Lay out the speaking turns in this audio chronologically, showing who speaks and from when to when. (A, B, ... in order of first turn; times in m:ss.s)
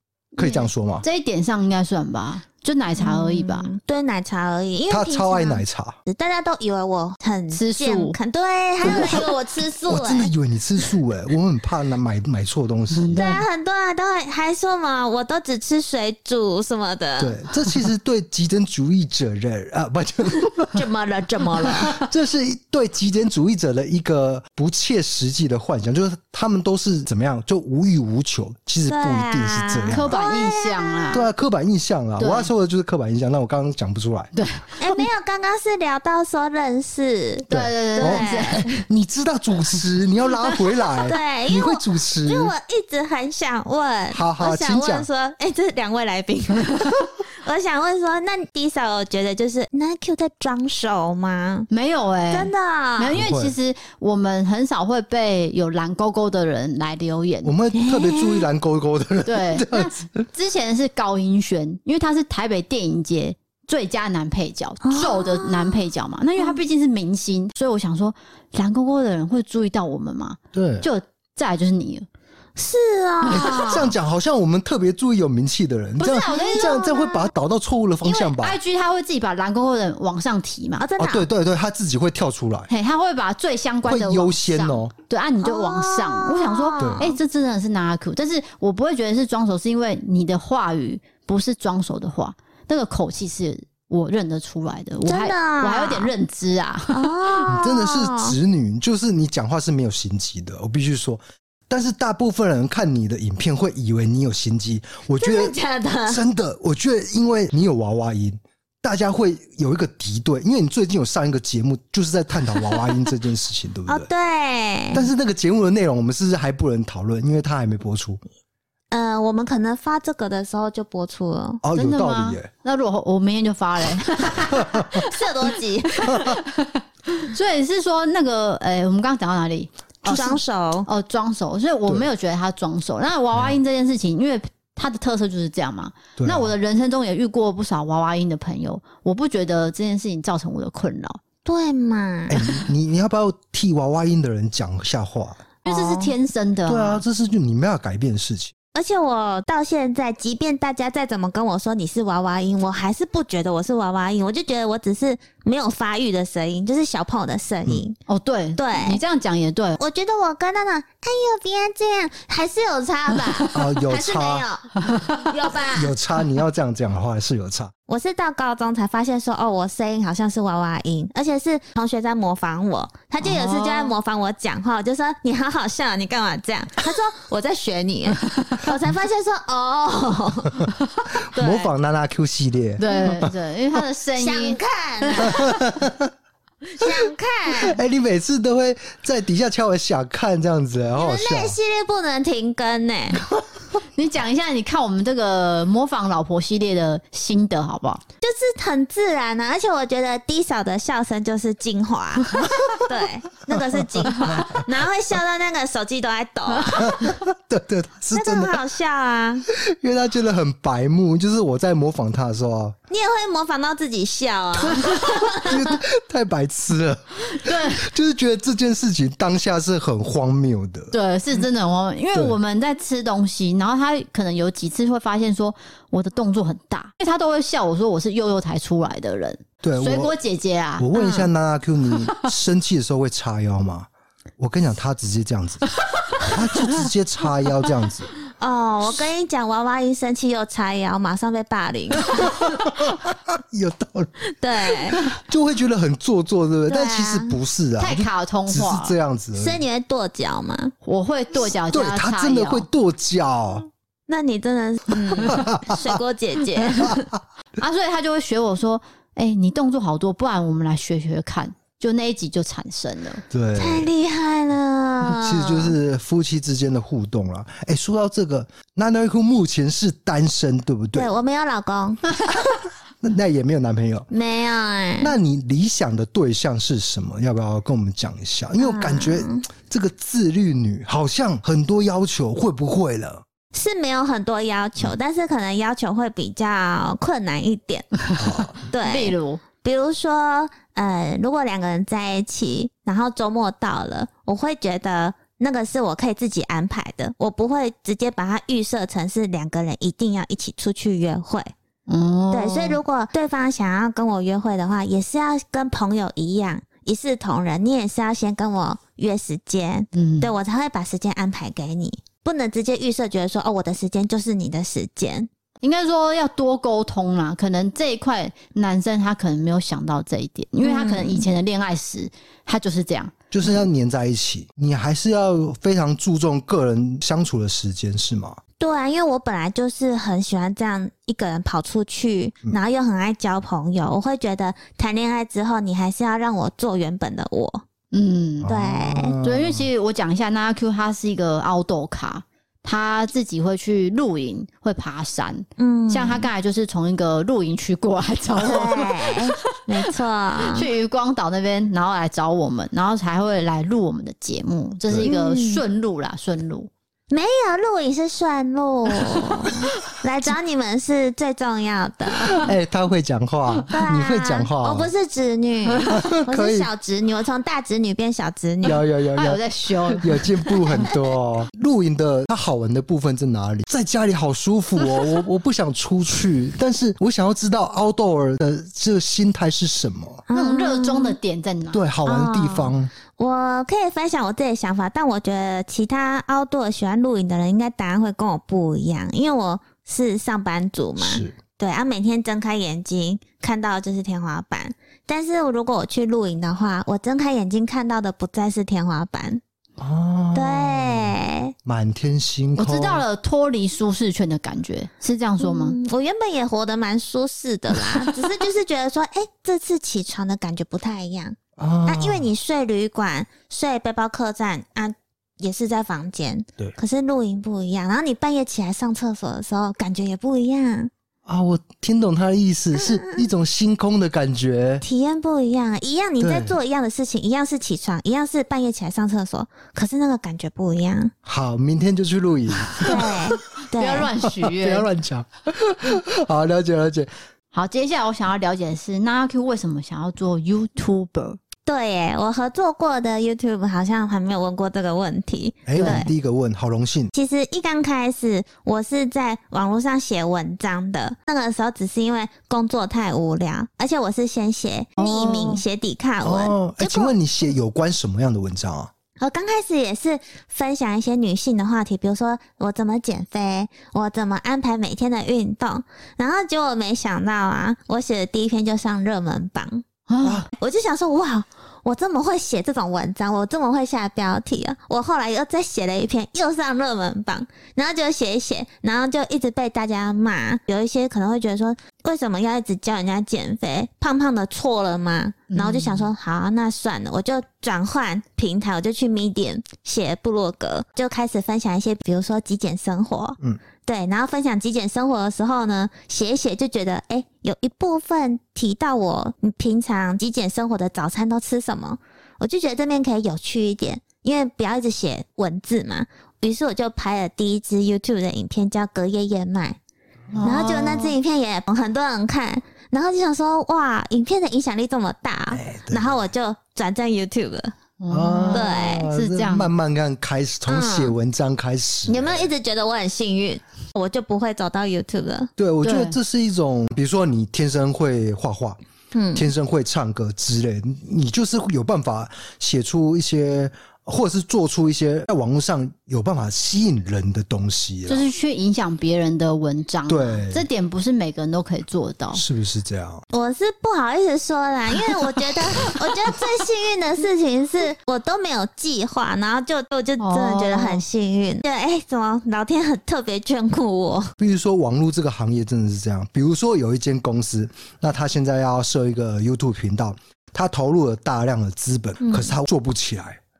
0:00.4-0:03.7 A
0:00.4-0:01.0 B
0:03.0-0:10.3 C
0:04.9-0:06.0 B
0:07.5-0:08.2 A
0:08.8-0:09.2 B
0:09.9-0:13.4 B
0:13.0-0:13.4 A
0:13.1-0:17.4 C
0:17.2-0:20.8 B
0:20.8-0:22.0 C
0:21.6-0:30.2 B
0:28.9-0:31.2 C
0:29.9-0:31.3 A
0:31.1-0:34.3 B
0:32.2-0:32.5 A
0:34.4-0:34.7 A
0:34.8-0:38.7 C
0:37.5-0:38.7 A
0:37.5-0:42.5 B
0:41.0-0:51.7 C
0:44.1-0:45.1 B
0:51.7-0:57.5 A
0:52.3-0:53.2 C
0:53.1-0:53.5 B
0:57.4-1:00.2 B
0:57.8-0:58.5 C
0:59.2-1:12.1 A
1:04.8-1:05.8 C
1:10.5-1:10.9 B
1:12.6-1:13.9 C
1:13.3-1:18.6 B
1:16.0-1:16.8 A
1:16.3-1:17.3 C
1:18.0-1:20.9 A
1:20.8-1:21.3 C
1:21.0-1:22.7 B
1:22.7-1:37.1 A
1:23.9-1:24.9 B
1:25.4-1:27.1 C
1:26.8-1:27.2 B
1:35.1-1:36.1 C
1:36.9-1:38.4 C
1:37.5-1:54.1 B
1:45.2-1:46.2 C
1:53.9-1:55.1 C
1:54.9-1:58.2 B
1:58.9-2:01.6 C
2:01.6-2:02.5 B
2:01.8-2:04.5 A
2:04.3-2:06.2 C
2:04.5-2:05.0 B
2:06.0-2:06.4 B
2:06.1-2:10.4 A
2:10.0-2:10.4 B
2:10.0-2:10.9 C
2:10.9-2:21.2 A
2:16.2-2:16.5 B
2:21.4-2:22.5 C
2:22.3-2:25.4 B
2:25.6-2:27.0 A
2:25.6-2:26.1 C
2:26.6-2:28.5 B
2:28.7-2:38.0 C
2:38.1-2:39.8 A
2:38.6-2:39.0 C
2:39.8-2:45.9 C
2:43.5-2:44.5 B
2:45.7-2:47.7 B
2:47.9-3:00.7 C
2:53.2-2:54.0 A
3:01.3-3:03.3 B
3:01.3-3:01.7 C
3:02.8-3:05.3 A
3:04.2-3:05.6 C
3:05.3-3:06.1 B
3:06.7-3:07.8 C
3:07.5-3:11.6 B
3:11.0-3:13.2 C
3:14.0-3:18.0 A
3:18.2-3:27.1 C
3:24.2-3:24.6 B
3:26.8-3:28.6 B
3:28.1-3:29.5 C
3:29.5-3:32.8 B
3:32.9-3:35.8 C
3:35.4-3:40.9 B
3:37.3-3:37.9 A
3:40.9-3:50.9 A
3:49.6-3:50.1 B
3:50.8-3:58.1 B
3:50.9-3:51.3 C
3:58.4-4:02.4 C
4:02.2-4:04.1 B
4:04.4-4:05.1 C
4:04.7-4:09.6 B
4:06.7-4:07.3 C
4:07.8-4:09.0 A
4:09.4-4:10.7 C
4:10.8-4:12.6 A
4:11.4-4:13.7 B
4:14.1-4:17.1 C
4:15.3-4:16.0 B
4:17.6-4:23.2 A
4:23.3-4:23.9 B
4:23.6-4:25.7 C
4:25.0-4:31.1 B
4:30.9-4:32.1 C
4:33.0-4:34.1 B
4:34.1-4:35.1 C
4:35.0-4:43.2 B
4:38.6-4:39.4 C
4:43.5-4:47.9 C
4:48.1-4:49.4 A
4:48.2-4:48.6 B
4:48.6-5:01.5 C
5:01.9-5:02.8 A
5:02.3-5:15.3 C
5:10.0-5:10.3 A
5:15.6-5:23.1 A
5:20.6-5:21.3 C
5:23.3-5:28.4 B
5:28.6-5:37.6 C
5:37.9-5:38.5 A
5:38.4-5:39.7 B
5:38.5-5:39.2 C
5:39.2-5:49.5 A
5:45.6-5:46.3 C
5:48.4-5:50.7 C
5:50.4-5:56.7 A
5:55.0-5:55.6 C
5:57.1-6:02.5 C
6:02.4-6:04.9 B
6:03.7-6:08.8 C
6:05.9-6:06.7 B
6:08.6-6:20.2 B
6:09.2-6:10.9 A
6:20.3-6:21.2 C
6:20.3-6:21.8 A
6:21.7-6:22.9 B
6:22.0-6:39.4 C
6:31.0-6:31.4 B
6:39.8-6:43.0 B
6:40.3-6:41.5 C
6:42.6-6:45.8 A
6:45.4-7:00.9 C
6:51.6-6:52.3 B
7:01.2-7:04.8 B
7:02.8-7:03.2 C
7:04.8-7:11.1 C
7:06.2-7:06.6 B
7:11.2-7:13.2 B
7:12.8-7:14.1 C
7:13.8-7:14.9 A
7:14.4-7:17.1 B
7:17.5-7:21.4 A
7:21.7-7:26.1 C
7:25.7-7:27.1 B
7:25.8-7:26.0 A
7:27.1-7:37.1 C
7:35.0-7:35.6 A
7:36.2-7:38.9 B
7:39.2-7:49.8 C
7:50.1-7:50.4 A
7:50.2-7:50.5 B
7:50.5-8:29.8 C
8:05.5-8:06.1 A
8:30.3-8:31.2 A
8:30.4-8:37.8 C
8:35.5-8:36.2 B
8:38.0-8:39.7 A
8:38.1-8:42.5 B
8:38.5-8:39.1 C
8:40.7-8:41.1 C
8:42.1-8:45.5 C
8:45.6-8:48.8 B
8:45.8-8:46.2 A
8:49.1-8:49.5 C
8:49.3-8:58.3 B
8:58.1-9:02.4 A
9:00.1-9:00.7 B
9:02.3-9:03.2 B
9:03.3-9:14.3 C
9:10.2-9:11.0 A
9:14.4-9:23.4 B
9:22.2-9:22.5 C